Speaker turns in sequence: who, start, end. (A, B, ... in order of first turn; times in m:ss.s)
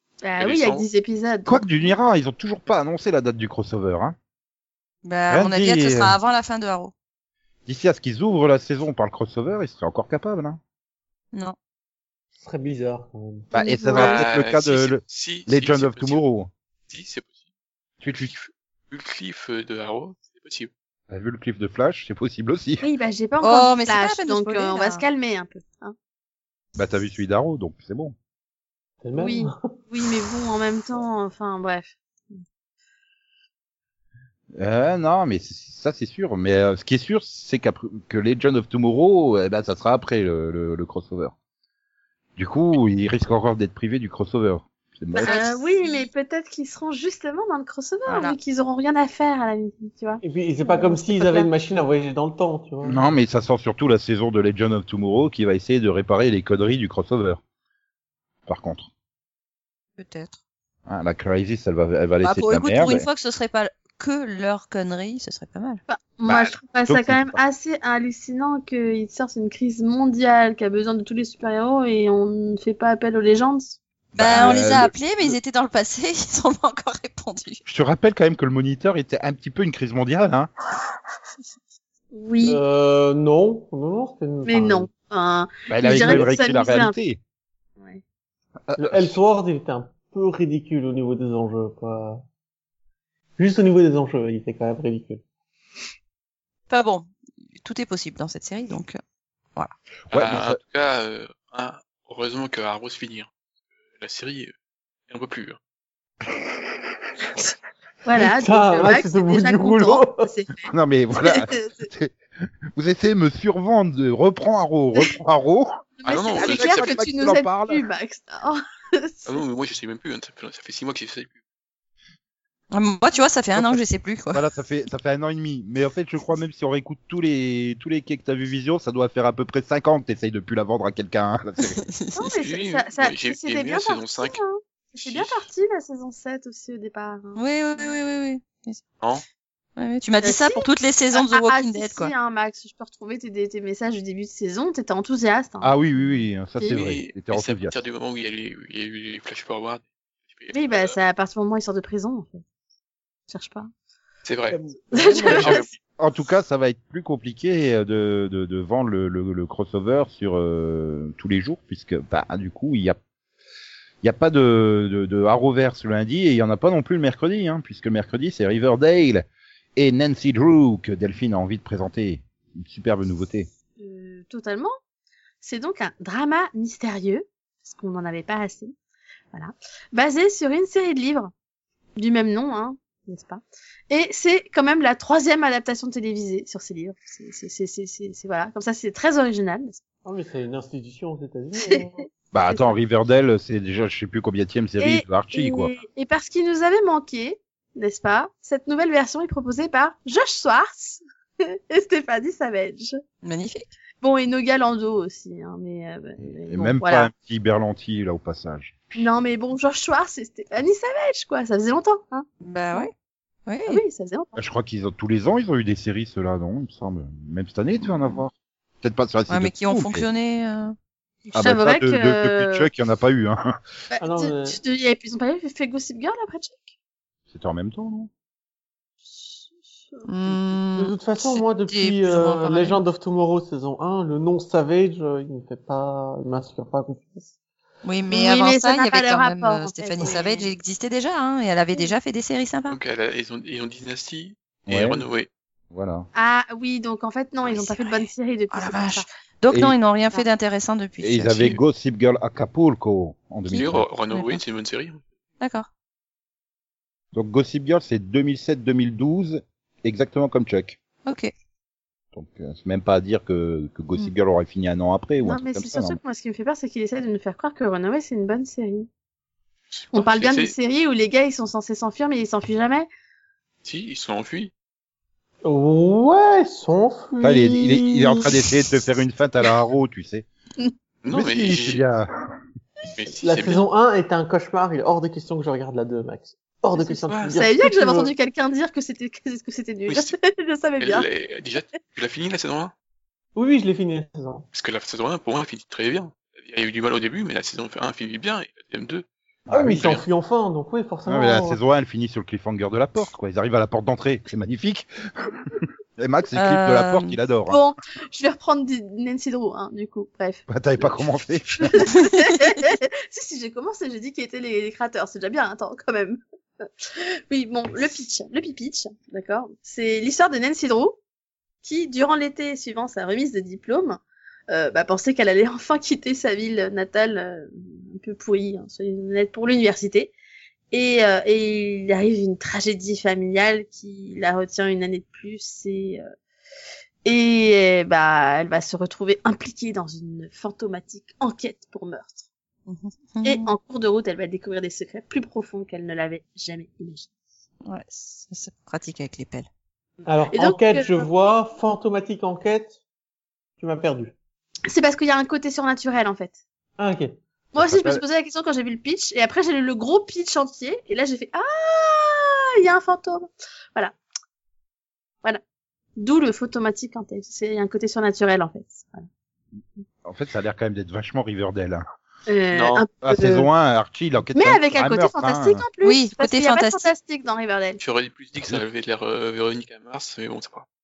0:00.2-0:01.9 A
0:00.4-0:00.9 B
0:01.4-0:04.2 C
0:05.0-0:06.9 D
0:05.3-0:06.2 C
0:07.6-0:10.6 C
0:12.4-0:13.5 E
0:13.5-0:16.5 C
0:13.5-0:14.2 A
0:13.9-0:16.2 B
0:16.9-0:17.4 B
0:18.0-0:18.3 C
0:18.2-0:20.7 B
0:21.1-0:22.8 C
0:22.8-0:25.9 A
0:23.4-0:25.0 D
0:26.8-0:28.1 C
0:29.0-0:29.5 E
0:29.2-0:32.4 A
0:34.5-0:41.3 C
0:42.4-0:45.4 C
0:45.2-0:46.1 D
0:45.2-0:51.5 A
0:48.0-0:48.4 D
0:50.2-0:53.0 E
0:52.8-0:57.4 C
0:58.5-0:58.9 C
1:00.0-1:00.4 D
1:00.8-1:03.1 C
1:02.2-1:05.8 D
1:05.9-1:13.8 A
1:06.2-1:07.4 C
1:14.1-1:14.9 C
1:14.2-1:17.6 D
1:17.7-1:20.5 C
1:22.1-1:22.6 A
1:22.4-1:24.9 E
1:24.4-1:27.0 A
1:25.7-1:27.2 C
1:25.8-1:26.3 E
1:28.7-1:29.2 C
1:28.8-1:32.2 E
1:33.4-1:35.2 E
1:36.7-1:39.0 D
1:40.1-1:40.6 C
1:40.1-1:43.3 B
1:44.0-1:44.5 B
1:45.1-1:45.6 B
1:48.0-1:50.7 A
1:48.2-1:50.3 E
1:50.7-1:52.1 C
1:51.2-1:51.9 A
1:52.7-1:57.8 C
1:56.0-1:59.4 A
1:56.0-1:57.0 B
1:59.2-2:01.4 B
2:02.7-2:04.4 D
2:03.5-2:03.8 C
2:04.3-2:11.8 C
2:11.7-2:12.3 D
2:12.1-2:18.0 A
2:12.4-2:14.4 B
2:15.0-2:15.4 B
2:17.3-2:18.8 D
2:19.8-2:22.1 D
2:20.2-2:25.8 A
2:25.6-2:27.8 C
2:26.6-2:26.8 A
2:26.7-2:31.0 B
2:30.5-2:32.4 A
2:33.3-2:33.7 A
2:34.2-2:34.6 B
2:34.5-2:35.6 E
2:34.9-2:35.7 A
2:35.2-2:35.7 B
2:35.4-2:43.0 C
2:44.0-2:53.5 C
2:53.8-2:54.7 A
2:55.4-2:58.7 A
2:59.3-3:01.3 A
3:02.0-3:09.8 A
3:10.0-3:12.0 E
3:12.3-3:15.7 C
3:12.5-3:12.7 A
3:14.8-3:23.0 A
3:23.2-3:23.7 D
3:24.0-3:27.1 A
3:26.2-3:29.0 C
3:29.0-3:32.9 A
3:32.4-3:32.9 D
3:33.4-3:33.8 D
3:33.7-3:34.4 A
3:34.4-3:40.1 C
3:39.3-3:40.8 D
3:41.3-3:42.7 A
3:41.3-3:43.6 C
3:43.9-3:46.7 A
3:44.0-3:44.6 E
3:47.3-3:48.1 C
3:49.1-3:50.3 A
3:50.0-3:52.8 D
3:50.8-3:57.3 E
3:57.8-4:02.8 D
3:58.1-4:00.5 A
4:02.7-4:05.3 B
4:04.7-4:05.0 C
4:05.7-4:06.1 C
4:06.1-4:09.1 A
4:07.4-4:11.6 D
4:09.5-4:09.8 C
4:11.0-4:13.8 C
4:13.5-4:14.4 D
4:13.5-4:15.0 B
4:15.4-4:15.7 D
4:17.1-4:20.8 C
4:21.0-4:21.3 D
4:22.1-4:26.0 C
4:25.2-4:28.9 A
4:29.7-4:30.5 B
4:29.9-4:32.9 A
4:33.6-4:34.5 B
4:35.4-4:38.3 E
4:37.2-4:40.2 C
4:41.0-4:41.8 B
4:41.1-4:42.1 C
4:42.9-4:43.6 B
4:43.2-4:48.1 E
4:46.8-4:47.4 B
4:47.3-4:51.1 A
4:49.9-4:50.1 B
4:50.8-4:52.7 B
4:53.4-4:54.4 E
4:54.5-4:59.0 B
4:59.5-5:00.0 C
4:59.5-5:01.6 E
4:59.8-5:00.0 B
5:01.1-5:07.6 C
5:06.3-5:07.2 D
5:07.5-5:11.0 A
5:10.5-5:11.8 C
5:11.6-5:21.0 A
5:12.0-5:12.4 D
5:21.6-5:30.1 A
5:30.7-5:36.0 A
5:37.0-5:42.2 A
5:42.7-5:43.5 D
5:43.2-5:47.1 A
5:47.6-5:49.5 D
5:50.0-5:52.8 E
5:50.3-5:51.1 A
5:53.6-5:54.1 E
5:54.7-5:56.4 A
5:56.8-5:57.1 E
5:57.5-6:03.9 A
5:57.6-5:58.0 C
6:06.0-6:09.0 A
6:10.0-6:11.8 C
6:12.3-6:13.5 A
6:12.5-6:12.8 B
6:13.0-6:15.6 C
6:14.3-6:17.8 A
6:15.8-6:16.9 D
6:17.8-6:20.6 B